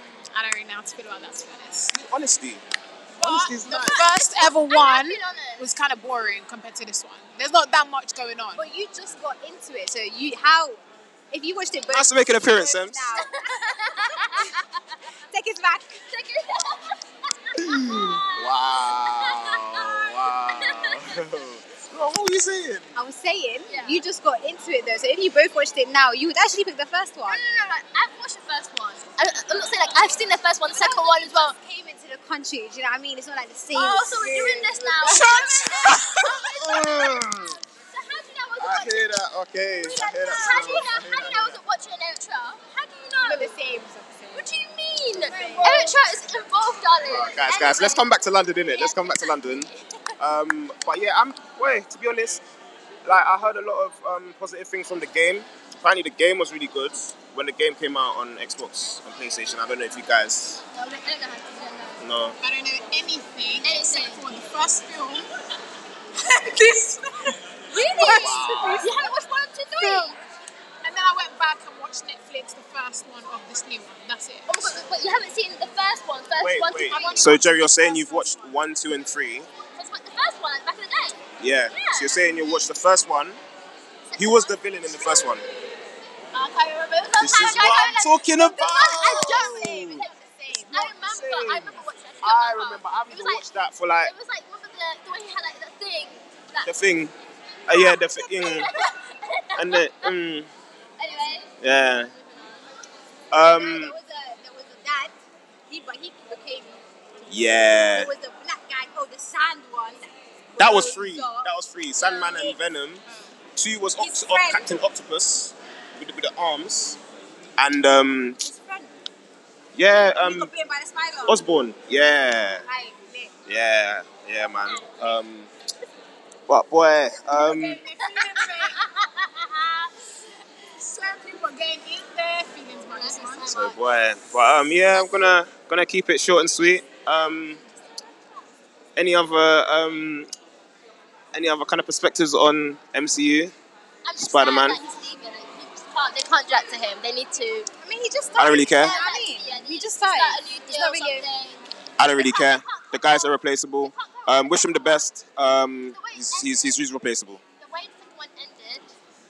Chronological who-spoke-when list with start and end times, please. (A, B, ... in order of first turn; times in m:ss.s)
0:00.3-0:01.9 A
0:01.9-0:02.6 B
0:03.2-0:04.0 B
0:03.2-0:08.6 A
0:04.2-0:05.6 C
0:08.6-0:10.8 D
0:11.3-0:13.3 D
0:11.9-0:13.1 B
0:13.1-0:14.6 C
0:14.0-0:14.5 D
0:15.3-0:16.0 D
0:16.1-0:21.2 C
0:17.6-0:22.9 B
0:22.9-0:27.4 D
0:23.7-0:24.0 C
0:27.2-0:31.6 C
0:30.7-0:35.6 D
0:33.7-0:37.2 C
0:35.0-0:36.0 A
0:35.6-0:37.6 B
0:37.9-0:39.1 C
0:38.6-0:41.6 B
0:39.8-0:43.5 C
0:43.2-0:44.5 D
0:44.3-0:48.1 C
0:45.1-0:46.0 D
0:47.0-0:52.4 B
0:48.7-0:49.7 C
0:53.0-1:00.6 B
1:00.7-1:02.0 C
1:02.0-1:02.4 B
1:02.4-1:05.3 A
1:03.6-1:04.3 C
1:06.4-1:07.4 A
1:06.5-1:06.8 D
1:07.7-1:08.9 D
1:07.7-1:10.2 C
1:08.0-1:08.7 A
1:08.1-1:08.8 B
1:09.8-1:10.1 D
1:10.8-1:14.5 A
1:14.5-1:17.4 C
1:16.4-1:19.5 B
1:16.9-1:18.6 A
1:19.6-1:22.7 C
1:21.4-1:23.4 B
1:24.1-1:25.2 C
1:24.2-1:25.4 B
1:26.3-1:33.4 C
1:27.2-1:30.0 B
1:28.4-1:30.9 D
1:30.7-1:34.1 B
1:34.0-1:36.7 C
1:36.6-1:37.1 B
1:37.6-1:38.7 B
1:37.7-1:40.1 C
1:39.6-1:40.5 B
1:41.0-1:41.5 C
1:41.1-1:41.4 D
1:41.6-1:42.1 B
1:43.3-1:43.9 B
1:43.4-1:45.1 D
1:45.7-1:46.8 D
1:47.3-1:48.1 B
1:47.5-1:52.6 D
1:50.6-1:57.0 B
1:54.0-1:54.8 D
1:57.6-1:58.4 B
1:58.4-1:58.9 D
1:59.7-2:00.5 B
2:00.1-2:01.4 D
2:01.2-2:02.6 B
2:02.6-2:03.3 D
2:03.5-2:05.5 B
2:06.5-2:07.8 B
2:07.3-2:08.7 D
2:07.5-2:08.7 A
2:08.4-2:08.9 C
2:10.8-2:13.5 A
2:13.0-2:13.8 C
2:13.4-2:17.6 B
2:19.0-2:20.3 B
2:21.3-2:23.5 B
2:24.0-2:27.7 C
2:24.2-2:24.8 B
2:27.8-2:31.3 D
2:28.4-2:29.0 B
2:28.4-2:35.1 C
2:32.0-2:37.4 B
2:35.9-2:36.8 C
2:37.6-2:38.9 C